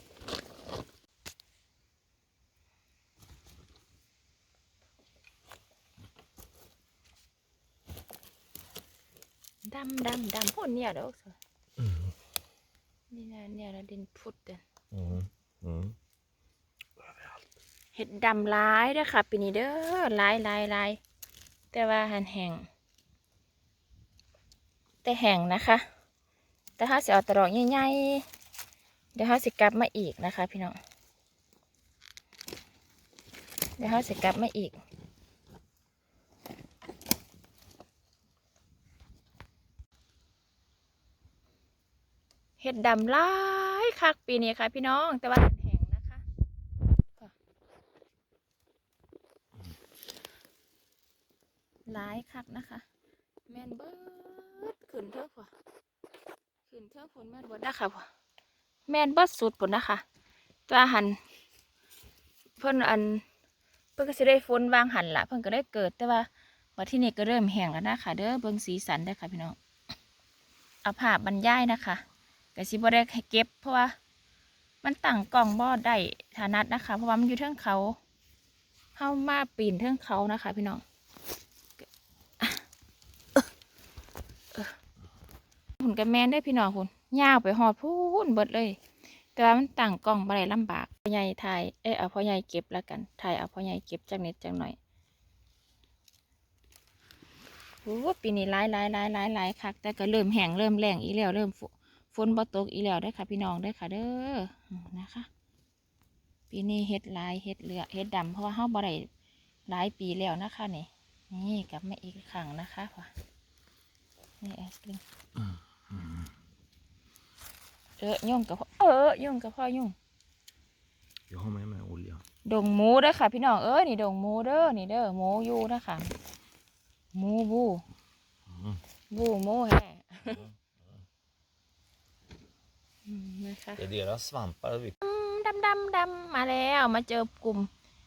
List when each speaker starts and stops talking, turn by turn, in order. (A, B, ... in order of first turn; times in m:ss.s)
0:09.6-0:11.4 A
0:11.8-0:12.1 B
0:13.1-0:14.6 A
0:14.9-0:16.0 B
0:17.9-0:21.0 A
0:21.7-0:22.7 A
0:25.0-0:25.8 A
0:26.8-0:28.2 A
0:29.1-0:30.8 A
0:33.8-0:34.7 A
0:42.6-0:46.2 A
0:51.9-0:52.8 A
0:53.5-0:55.5 A
0:56.7-0:58.1 A
0:58.9-1:00.0 A
1:00.7-1:01.2 A
1:02.6-1:03.2 A
1:04.0-1:09.6 A
1:10.8-1:12.0 A
1:12.5-1:13.9 A
1:14.8-1:18.0 A
1:19.0-1:20.8 A
1:25.8-1:28.8 A
1:29.3-1:34.8 A
1:37.8-1:45.3 A
1:46.5-1:49.1 A
1:49.7-1:53.1 A
1:54.4-1:55.0 A
1:55.4-1:56.3 B
1:58.0-1:59.9 A
2:01.3-2:02.2 B
2:02.4-2:06.2 A
2:07.1-2:07.8 A
2:08.5-2:08.8 B
2:09.1-2:10.4 A
2:10.2-2:10.8 B
2:13.0-2:13.8 A
2:13.8-2:15.0 B
2:15.0-2:17.7 A